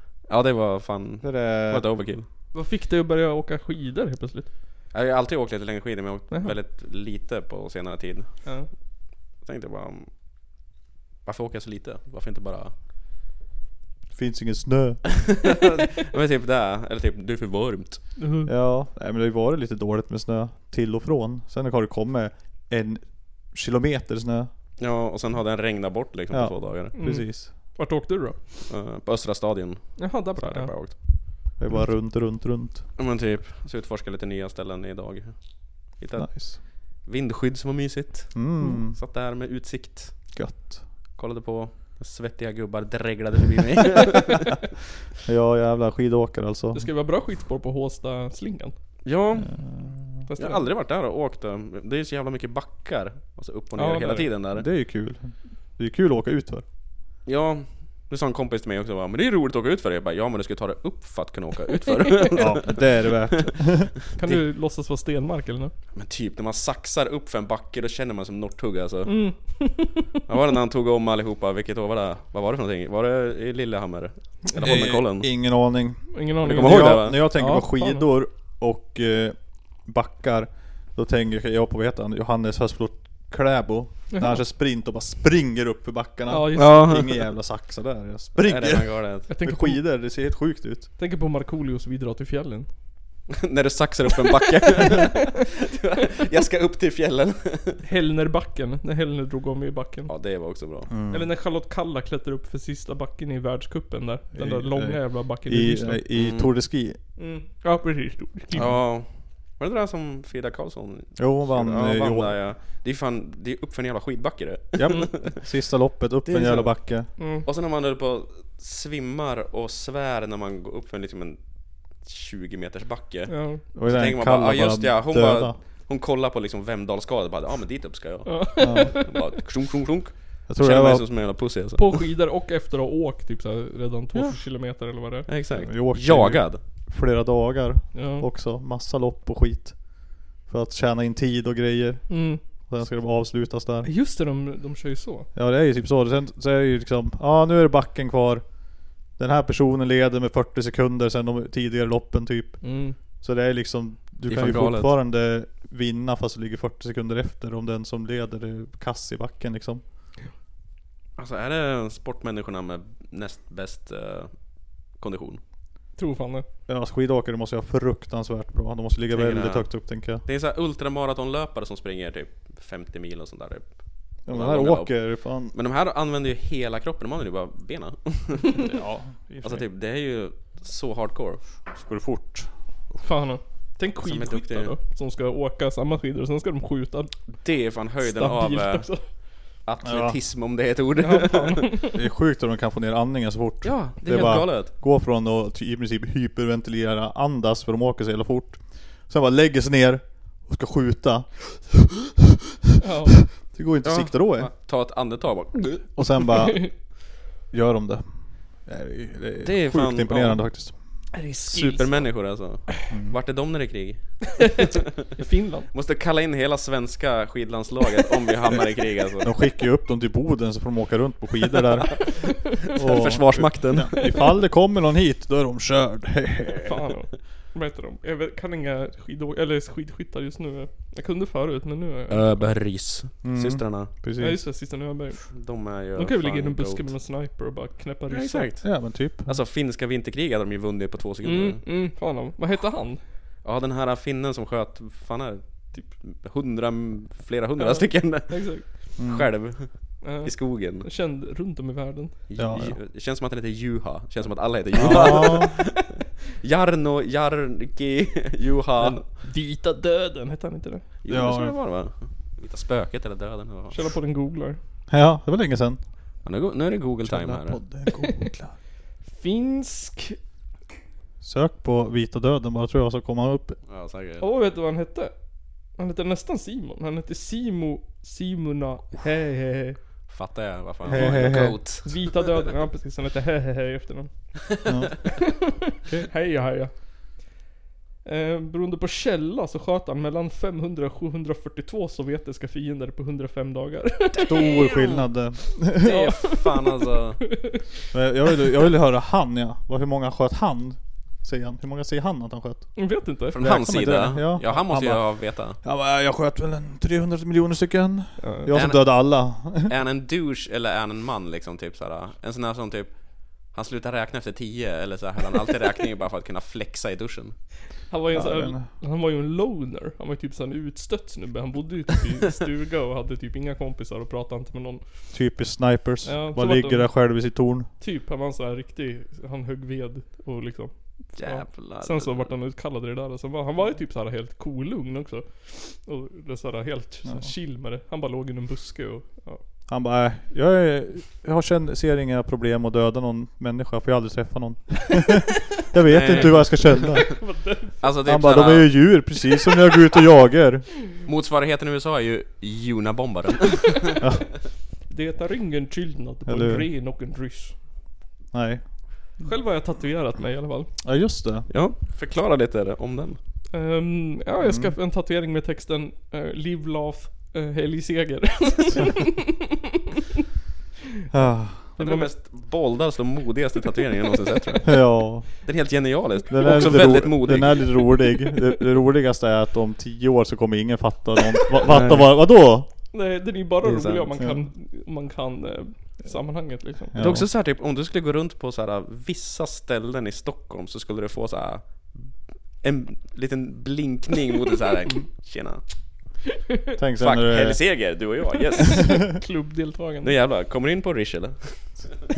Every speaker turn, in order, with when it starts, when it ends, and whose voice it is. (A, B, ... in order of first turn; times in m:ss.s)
0:00.3-0:02.3 A
0:01.2-0:01.8 B
0:02.5-0:04.5 C
0:04.9-0:08.4 A
0:06.3-0:06.6 C
0:09.4-0:10.1 A
0:11.2-0:12.8 A
0:14.1-0:15.0 B
0:15.4-0:18.0 A
0:18.2-0:18.5 C
0:18.4-0:24.5 B
0:24.8-0:26.9 A
0:26.3-0:27.5 B
0:26.9-0:28.4 C
0:28.7-0:31.0 A
0:30.0-0:31.0 C
0:31.6-0:32.8 B
0:33.0-0:35.4 A
0:35.9-0:40.2 A
0:36.2-0:36.6 B
0:38.3-0:39.0 B
0:40.3-0:40.8 B
0:41.2-0:44.4 A
0:45.2-0:46.9 B
0:46.7-0:48.7 C
0:49.0-0:49.5 A
0:49.4-0:50.2 B
0:50.3-0:50.6 C
0:50.4-0:54.6 A
0:53.8-0:54.3 C
0:54.5-0:56.6 B
0:57.2-1:03.1 A
1:02.3-1:04.4 B
1:04.2-1:05.7 C
1:05.9-1:09.1 A
1:09.1-1:10.0 C
1:10.3-1:15.3 A
1:14.5-1:30.9 B
1:16.1-1:18.0 C
1:16.4-1:17.2 A
1:24.1-1:24.4 C
1:26.3-1:26.9 C
1:26.6-1:27.3 A
1:28.4-1:29.3 A
1:29.3-1:29.8 C
1:31.0-1:32.7 C
1:33.3-1:37.8 A
1:34.8-1:35.1 C
1:37.8-1:40.1 C
1:40.1-1:40.9 A
1:40.9-1:41.3 B
1:41.1-1:46.0 C
1:44.3-1:47.0 B
1:46.2-1:46.5 A
1:47.2-1:48.7 C
1:48.5-1:55.2 A
1:51.2-1:52.4 B
1:54.8-1:57.1 B
1:56.3-2:01.4 A
1:57.2-1:57.5 C
2:02.0-2:12.0 A
2:03.3-2:03.6 C
2:03.7-2:05.6 B
2:08.3-2:09.3 C
2:08.6-2:09.0 B
2:10.5-2:11.0 B
2:11.8-2:15.3 C
2:15.3-2:16.6 A
2:15.6-2:19.8 B
2:17.9-2:18.2 C
2:20.5-2:23.9 B
2:22.1-2:22.4 C
2:23.8-2:25.3 C
2:25.3-2:28.4 B
2:29.2-2:32.6 B
2:32.6-2:33.0 C
2:33.2-2:39.8 B
2:34.3-2:34.9 A
2:41.2-2:44.4 A
2:44.9-2:45.4 A
2:46.0-2:46.4 C
2:46.7-2:50.2 B
2:49.1-2:53.7 A
2:54.2-2:55.5 B
2:54.3-2:55.0 A
2:55.5-2:58.6 A
2:58.6-2:59.6 B
2:59.4-3:01.4 A
3:01.7-3:02.5 B
3:03.0-3:07.1 C
3:04.0-3:04.7 A
3:07.4-3:08.8 A
3:08.0-3:09.0 C
3:09.6-3:11.6 A
3:09.8-3:10.2 B
3:11.0-3:11.9 C
3:11.9-3:21.9 B
3:13.6-3:14.7 A
3:22.8-3:23.2 C
3:23.4-3:24.5 B
3:23.8-3:25.8 A
3:25.9-3:26.8 B
3:26.4-3:26.7 C
3:27.5-3:31.8 B
3:29.4-3:30.4 A
3:31.1-3:32.0 C
3:31.6-3:34.2 A
3:32.9-3:33.2 B
3:34.4-3:35.7 C
3:35.7-3:39.3 A
3:39.2-3:46.8 B
3:42.8-3:44.1 A
3:46.6-3:52.5 C
3:52.1-3:53.9 A
3:53.2-3:54.4 B
3:54.2-3:55.2 C
3:55.3-3:56.9 A
3:55.9-3:58.5 C
3:58.1-4:01.6 A
3:58.6-3:59.3 B
4:01.2-4:03.0 C
4:03.4-4:08.5 A
4:07.6-4:08.6 C
4:09.0-4:09.3 B
4:09.0-4:09.7 A
4:10.0-4:12.1 C
4:10.2-4:10.8 A
4:12.3-4:15.9 A
4:12.4-4:12.8 B
4:14.8-4:15.5 B
4:14.8-4:15.4 C
4:16.4-4:19.0 A
4:18.8-4:20.8 C
4:21.0-4:23.9 A
4:21.1-4:21.5 B
4:23.7-4:24.6 C
4:24.9-4:25.8 B
4:26.2-4:27.6 A
4:27.0-4:28.5 B
4:28.0-4:28.3 C
4:29.1-4:30.2 C
4:31.2-4:33.6 B
4:33.7-4:34.2 A
4:34.2-4:35.1 C
4:35.8-4:39.8 C
4:40.1-4:42.0 A
4:40.9-4:41.6 B
4:40.9-4:41.2 C
4:41.8-4:44.1 C
4:44.7-4:45.0 B
4:46.1-4:46.7 C
4:48.0-4:54.8 C
4:54.2-4:56.1 B
4:55.8-4:57.2 A
4:55.9-4:56.7 C
4:57.9-5:02.7 B
5:02.8-5:03.4 C
5:03.3-5:05.6 A
5:03.3-5:09.7 B
5:08.2-5:08.5 C
5:08.5-5:09.1 A
5:09.6-5:12.9 A
5:13.5-5:17.4 A
5:17.9-5:24.8 C
5:18.1-5:18.7 B
5:25.1-5:27.7 B
5:26.0-5:26.9 C
5:27.8-5:39.4 C
5:31.2-5:32.3 A
5:39.7-5:47.1 B
5:45.9-5:46.9 A
5:46.0-5:47.8 C
5:47.8-5:48.7 A
5:48.0-5:50.7 B
5:51.0-5:53.8 A
5:54.9-5:57.5 C
5:56.2-5:56.7 B
5:58.3-5:58.6 B
5:59.2-6:00.7 C
6:00.8-6:01.5 B
6:01.5-6:03.2 A
6:03.5-6:09.5 C
6:04.4-6:04.7 B
6:11.1-6:11.6 B
6:11.8-6:12.1 C
6:11.8-6:14.6 A
6:14.6-6:15.3 B
6:15.4-6:17.7 A
6:16.3-6:22.7 B
6:16.4-6:17.0 C
6:21.7-6:22.1 A
6:22.9-6:26.9 C
6:23.6-6:24.1 A
6:26.9-6:27.2 B
6:27.0-6:32.1 A
6:32.6-6:35.6 A
6:36.8-6:37.6 B
6:37.0-6:39.0 A
6:38.6-6:40.1 C
6:40.0-6:41.8 A